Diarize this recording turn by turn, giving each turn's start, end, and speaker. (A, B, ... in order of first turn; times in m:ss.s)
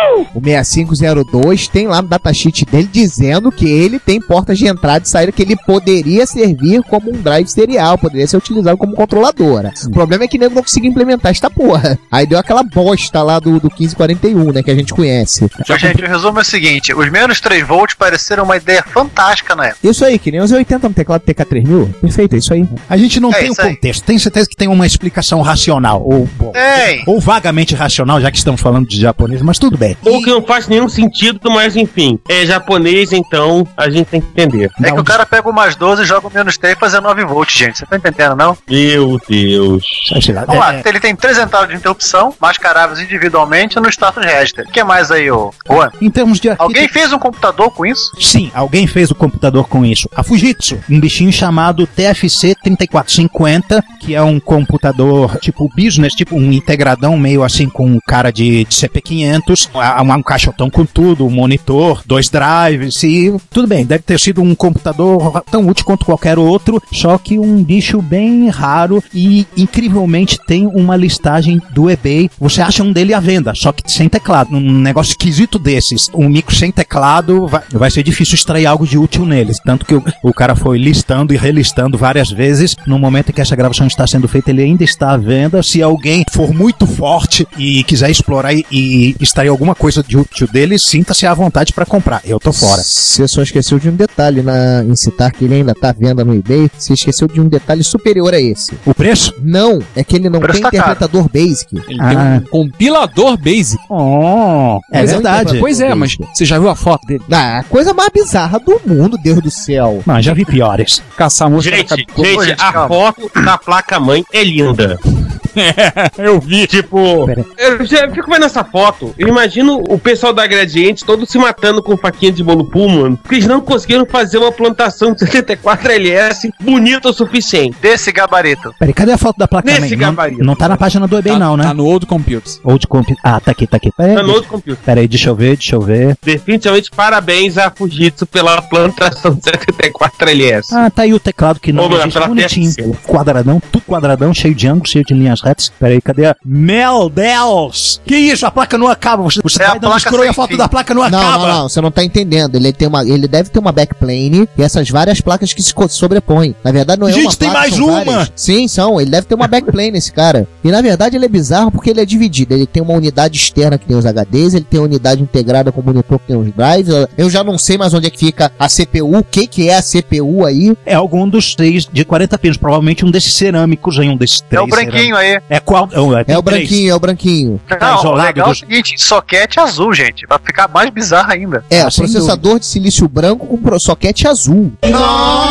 0:00.3-0:15.6 A
0:15.6-0:16.0 B
0:15.7-0:19.7 C
0:19.8-0:22.8 A
0:22.9-0:30.3 D
0:23.3-0:23.8 C
0:26.5-0:27.0 C
0:30.0-0:34.8 E
0:34.8-0:35.2 D
0:34.8-0:38.6 C
0:38.7-0:40.1 E
0:40.1-0:40.8 D
0:40.5-0:45.9 C
0:46.0-0:46.9 D
0:46.6-0:48.1 C
0:48.2-1:32.8 D
1:32.5-1:38.8 A
1:38.8-1:39.3 D
1:39.4-1:41.8 A
1:40.4-1:41.0 C
1:41.8-1:43.8 B
1:42.0-1:42.4 D
1:43.9-1:45.6 D
1:44.9-1:46.3 A
1:45.0-1:47.3 B
1:47.3-1:50.0 A
1:50.0-1:51.0 D
1:51.2-1:52.8 B
1:51.6-1:55.0 E
1:52.3-1:52.9 C
1:55.6-1:56.7 B
1:56.7-2:07.8 E
2:07.8-2:08.7 C
2:08.8-2:11.7 D
2:09.6-2:10.7 E
2:11.2-2:12.6 B
2:12.6-2:16.2 D
2:14.1-2:14.8 E
2:16.2-2:20.8 E
2:20.7-2:31.6 D
2:21.8-2:23.0 E
2:29.6-2:30.6 C
2:31.0-2:50.8 A
2:37.1-2:38.3 D
2:50.8-2:56.8 D
2:54.6-2:55.1 C
2:56.3-2:57.7 A
2:57.7-3:01.6 C
2:57.7-2:58.6 D
3:01.7-3:04.8 A
3:01.7-3:02.4 D